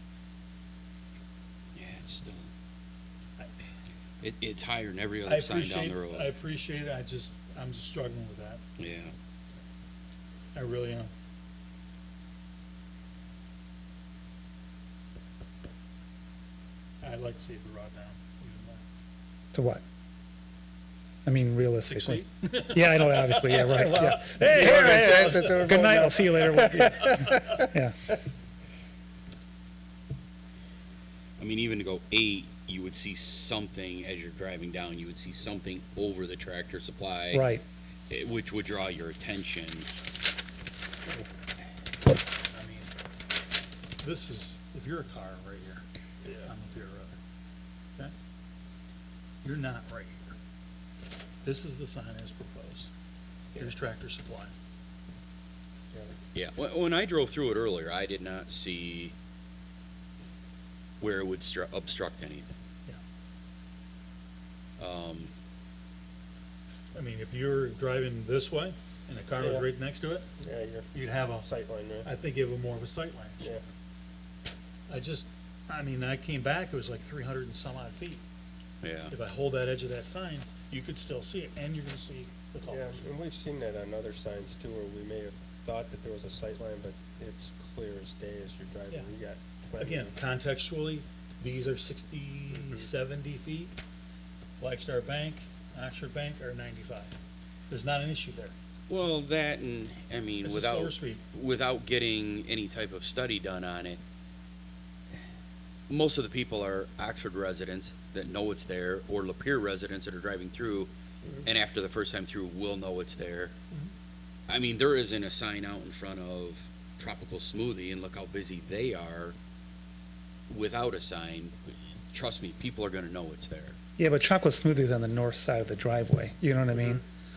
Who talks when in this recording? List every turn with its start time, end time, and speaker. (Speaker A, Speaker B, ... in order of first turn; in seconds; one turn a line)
Speaker A: 1.8-2.5
Speaker A: 4.2-6.3
Speaker B: 5.2-8.6
Speaker A: 8.8-9.1
Speaker B: 10.6-11.1
Speaker B: 17.0-18.8
Speaker C: 19.5-19.8
Speaker C: 21.2-28.0
Speaker B: 21.9-27.2
Speaker D: 24.4-27.6
Speaker A: 31.4-37.5
Speaker C: 37.3-37.6
Speaker A: 38.1-39.9
Speaker B: 42.5-42.9
Speaker B: 44.0-47.1
Speaker B: 49.4-50.4
Speaker B: 51.4-52.9
Speaker B: 53.6-54.5
Speaker A: 56.3-59.1
Speaker A: 61.0-62.5
Speaker A: 64.8-65.3
Speaker B: 66.9-70.3
Speaker D: 69.4-69.7
Speaker D: 70.4-72.1
Speaker B: 70.9-71.5
Speaker B: 72.0-73.6
Speaker B: 74.9-78.2
Speaker A: 78.8-79.1
Speaker B: 79.1-83.0
Speaker D: 82.7-90.1
Speaker B: 89.8-93.8
Speaker D: 92.5-92.8
Speaker B: 94.6-97.2
Speaker B: 97.7-98.5
Speaker A: 98.9-104.0
Speaker B: 100.4-101.2
Speaker A: 105.9-110.9
Speaker A: 111.4-113.5
Speaker A: 114.5-119.3
Speaker A: 120.5-121.5
Speaker A: 122.1-123.8
Speaker C: 124.0-127.0